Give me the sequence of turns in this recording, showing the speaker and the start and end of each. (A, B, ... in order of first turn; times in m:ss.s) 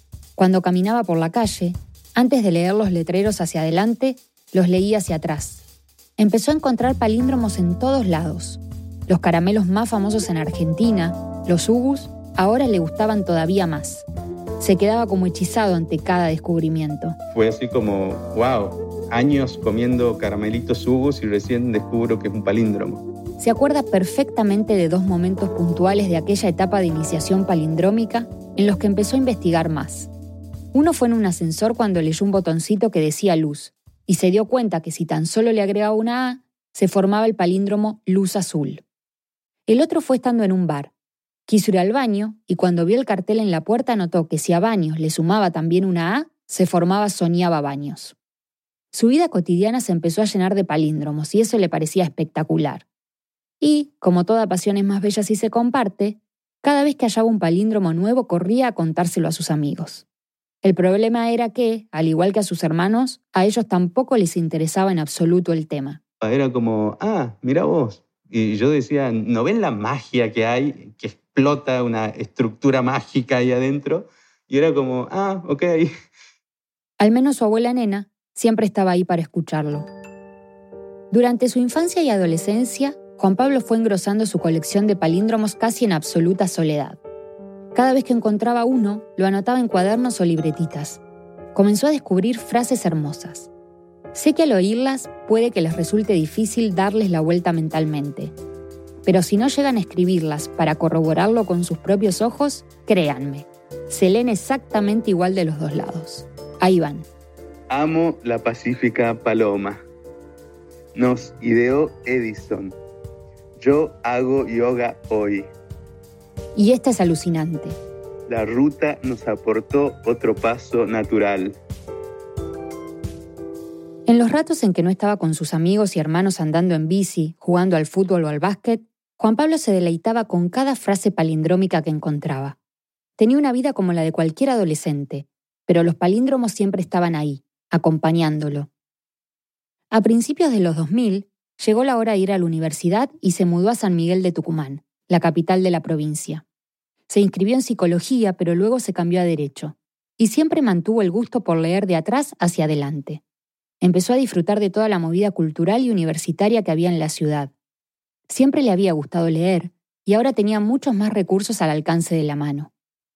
0:00.4-0:05.6 A
0:06.2-0:14.0 A
0:14.6-0:17.2 A
0:17.3-0:23.0 B
0:23.4-0:30.1 A
0:30.7-0:38.8 A
0:39.7-0:40.9 A
0:41.5-0:48.1 A
0:48.9-0:52.8 A
0:53.6-1:00.0 A
1:00.6-1:06.0 A
1:06.2-1:15.9 B
1:17.0-1:19.9 A
1:21.1-1:27.0 A
1:27.7-1:31.0 A
1:31.5-1:33.5 A
1:34.1-1:38.3 A
1:39.0-1:47.0 A
1:47.7-1:49.8 B
1:50.9-1:52.8 B
1:53.6-1:55.5 B
1:56.6-1:57.8 A
1:58.3-2:01.6 B
2:04.1-2:12.6 A
2:13.2-2:18.7 A
2:19.9-2:26.4 A
2:27.1-2:33.2 A
2:33.8-2:37.5 A
2:38.3-2:42.7 A